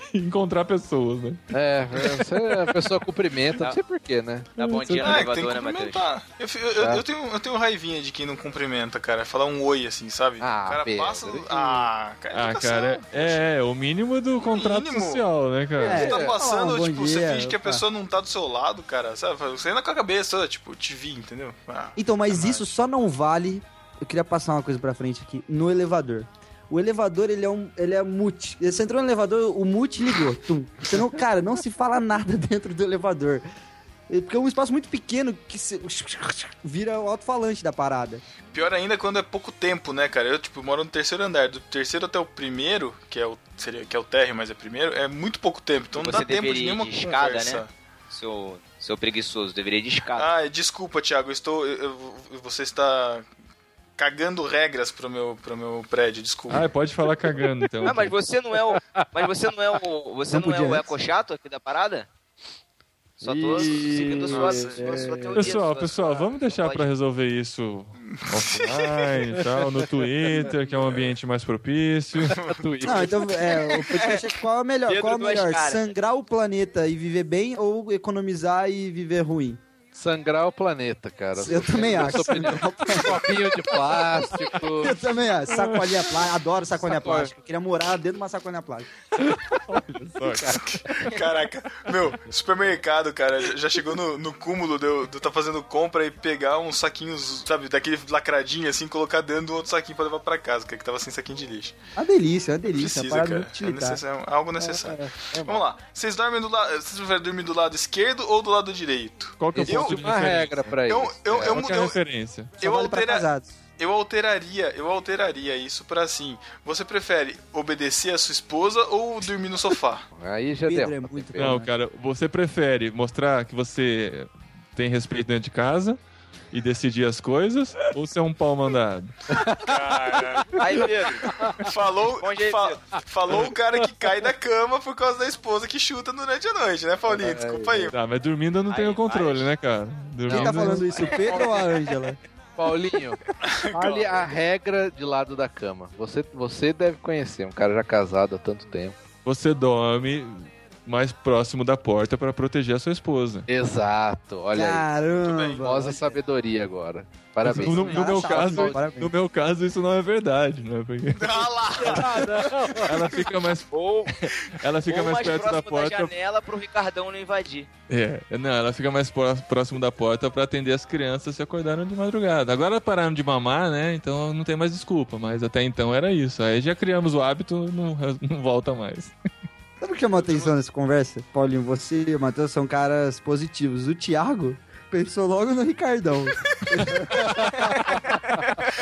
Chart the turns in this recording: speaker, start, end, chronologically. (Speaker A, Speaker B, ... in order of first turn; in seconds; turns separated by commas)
Speaker A: 0.1-1.4, Speaker B: 1.5-4.5, Speaker A: 2.0-2.7, Speaker C: 4.6-6.1, Speaker A: 4.6-5.2, Speaker D: 5.0-13.5, Speaker B: 6.8-7.0, Speaker B: 10.4-11.9, Speaker A: 12.3-16.1, Speaker D: 14.4-15.2, Speaker B: 15.8-16.4, Speaker E: 15.8-17.8, Speaker D: 15.9-22.7, Speaker E: 22.0-33.5, Speaker E: 34.1-38.2, Speaker D: 38.5-47.7, Speaker C: 46.0-50.3, Speaker D: 50.2-53.3, Speaker D: 54.0-56.7, Speaker A: 56.5-58.1, Speaker B: 57.4-57.9, Speaker C: 57.9-62.1, Speaker B: 58.7-59.0, Speaker E: 60.3-60.9, Speaker C: 63.2-66.9, Speaker B: 63.2-65.5, Speaker D: 64.3-65.1, Speaker A: 65.3-72.4, Speaker D: 68.0-69.1, Speaker B: 69.4-70.5, Speaker D: 70.8-71.0, Speaker B: 72.3-73.4, Speaker D: 72.3-73.0, Speaker E: 72.8-79.6, Speaker C: 73.9-74.3, Speaker C: 74.9-75.9, Speaker B: 79.9-85.0, Speaker E: 81.3-83.3, Speaker E: 84.8-88.9, Speaker A: 85.6-85.9, Speaker B: 86.8-87.3, Speaker A: 89.3-91.2, Speaker D: 90.4-101.8, Speaker E: 102.0-104.0, Speaker D: 102.7-112.0, Speaker B: 104.6-105.6, Speaker A: 109.4-110.8, Speaker B: 109.5-111.7, Speaker A: 111.3-112.6, Speaker E: 112.6-113.5, Speaker D: 112.6-120.1, Speaker B: 120.1-121.6, Speaker E: 120.7-121.7, Speaker A: 121.4-126.0, Speaker A: 126.5-129.3, Speaker B: 129.3-129.7, Speaker D: 129.6-130.6, Speaker C: 130.6-131.3, Speaker B: 131.3-131.6, Speaker D: 131.6-137.9, Speaker C: 132.2-132.8, Speaker B: 137.1-137.9, Speaker A: 137.9-141.1, Speaker C: 138.7-139.5, Speaker B: 140.3-141.7, Speaker E: 140.3-142.2, Speaker C: 141.1-141.5, Speaker B: 142.6-143.2, Speaker D: 143.4-144.3, Speaker B: 143.7-149.0, Speaker A: 149.2-153.5, Speaker B: 153.5-154.9, Speaker E: 154.5-156.2, Speaker D: 155.2-155.9, Speaker B: 155.6-158.8, Speaker A: 157.4-162.0, Speaker E: 157.5-159.1, Speaker D: 161.2-162.9, Speaker B: 161.8-162.9, Speaker A: 162.8-163.7, Speaker C: 163.7-164.3, Speaker A: 164.2-166.1, Speaker C: 164.8-167.7, Speaker A: 167.9-179.1, Speaker E: 179.8-187.3, Speaker D: 180.2-180.5, Speaker B: 187.4-188.0